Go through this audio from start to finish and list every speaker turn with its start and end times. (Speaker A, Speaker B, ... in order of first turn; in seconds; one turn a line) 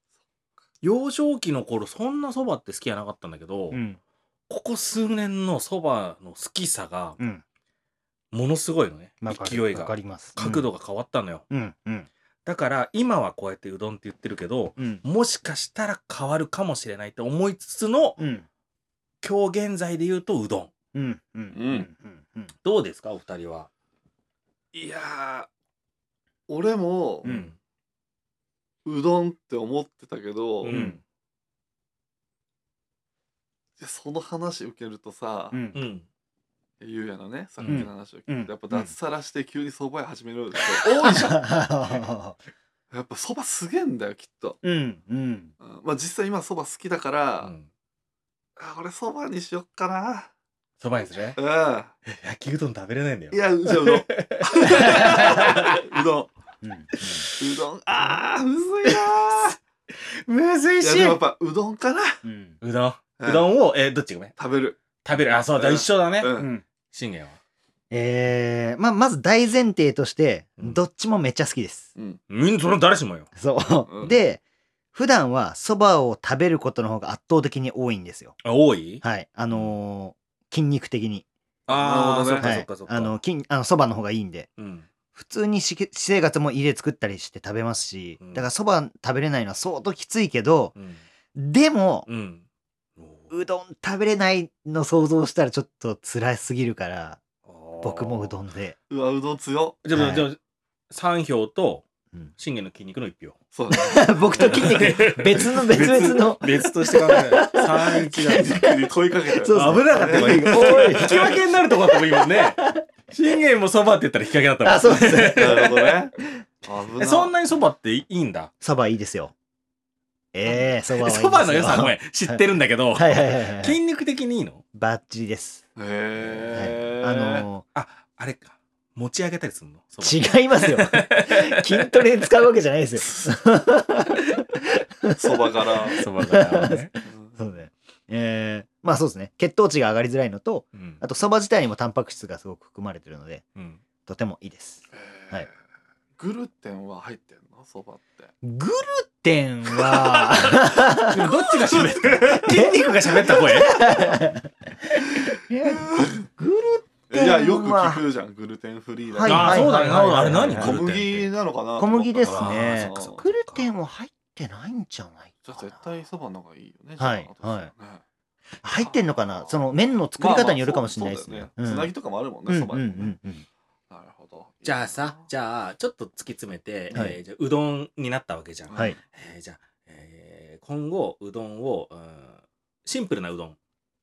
Speaker A: 0.8-3.8
Speaker B: 3.7-4.0
Speaker A: 4.5-7.2
Speaker B: 7.2-7.4
Speaker A: 8.3-11.4
Speaker B: 9.2-10.7
Speaker B: 11.5-12.1
Speaker A: 12.4-18.2
Speaker B: 14.8-15.0
Speaker B: 18.2-18.5
Speaker A: 19.2-20.7
Speaker B: 20.9-22.5
Speaker C: 21.5-21.9
Speaker A: 22.6-23.7
Speaker C: 24.7-25.5
Speaker C: 26.5-27.3
Speaker B: 27.2-27.5
Speaker A: 27.2-27.6
Speaker C: 28.8-30.8
Speaker A: 30.6-31.0
Speaker B: 30.7-31.0
Speaker C: 33.8-35.6
Speaker B: 35.5-35.8
Speaker A: 35.7-36.0
Speaker C: 36.8-41.5
Speaker A: 37.6-37.9
Speaker B: 37.6-38.9
Speaker B: 41.0-42.4
Speaker C: 42.9-44.6
Speaker B: 44.6-45.5
Speaker C: 45.6-47.5
Speaker A: 47.4-47.7
Speaker C: 48.6-50.3
Speaker A: 50.8-51.4
Speaker C: 51.4-51.9
Speaker A: 52.1-55.6
Speaker C: 53.3-56.3
Speaker B: 54.8-55.1
Speaker B: 56.6-57.3
Speaker C: 57.4-59.6
Speaker A: 60.0-61.2
Speaker C: 60.8-62.2
Speaker B: 62.2-62.6
Speaker A: 62.6-64.3
Speaker C: 63.2-63.5
Speaker C: 64.3-66.5
Speaker A: 65.0-66.3
Speaker B: 66.3-66.6
Speaker A: 66.9-67.4
Speaker B: 67.9-71.9
Speaker C: 71.9-72.2
Speaker A: 72.3-73.3
Speaker B: 73.3-74.4
Speaker C: 73.9-74.2
Speaker B: 74.9-78.4
Speaker A: 78.4-79.8
Speaker B: 79.0-81.3
Speaker A: 81.7-83.2
Speaker C: 81.7-82.6
Speaker B: 82.4-84.5
Speaker A: 84.6-84.9
Speaker B: 85.1-90.7
Speaker A: 88.2-88.5
Speaker A: 90.7-91.0
Speaker B: 91.3-92.1
Speaker A: 92.0-92.4
Speaker A: 93.0-93.3
Speaker B: 93.3-97.2
Speaker A: 97.5-98.3
Speaker B: 97.8-98.8
Speaker C: 98.9-99.8
Speaker A: 99.8-100.4
Speaker B: 99.9-100.3
Speaker A: 100.9-101.8
Speaker A: 102.3-103.4
Speaker C: 103.5-104.9
Speaker B: 103.7-108.8
Speaker A: 104.3-108.7
Speaker C: 108.1-111.5
Speaker B: 109.3-111.3
Speaker A: 109.5-116.0
Speaker B: 111.9-112.8
Speaker B: 114.6-116.4
Speaker C: 115.3-117.3
Speaker A: 117.0-118.5
Speaker B: 118.6-119.3
Speaker B: 120.3-123.8
Speaker A: 120.4-124.6
Speaker B: 124.7-125.7
Speaker C: 125.8-127.5
Speaker B: 126.5-127.7
Speaker A: 127.7-131.9
Speaker B: 130.0-143.4
Speaker C: 133.0-133.3
Speaker C: 135.2-136.0
Speaker A: 135.9-136.9
Speaker C: 137.0-137.4
Speaker A: 140.7-141.0
Speaker A: 143.5-143.8
Speaker B: 144.1-145.5
Speaker C: 144.9-145.5
Speaker C: 146.2-148.3
Speaker B: 148.4-151.1
Speaker C: 149.7-150.7
Speaker A: 151.0-154.2
Speaker C: 151.3-152.4
Speaker B: 152.2-158.0
Speaker C: 155.2-156.2
Speaker C: 157.1-163.2
Speaker B: 159.1-160.8
Speaker A: 159.2-161.3
Speaker B: 161.8-165.9
Speaker A: 162.2-163.1
Speaker C: 165.4-168.0
Speaker B: 167.0-167.7
Speaker B: 168.6-171.9
Speaker C: 168.6-169.6
Speaker C: 170.2-173.2
Speaker B: 172.4-173.4
Speaker C: 173.9-175.3
Speaker A: 174.6-183.6
Speaker B: 176.9-177.2
Speaker C: 178.7-179.0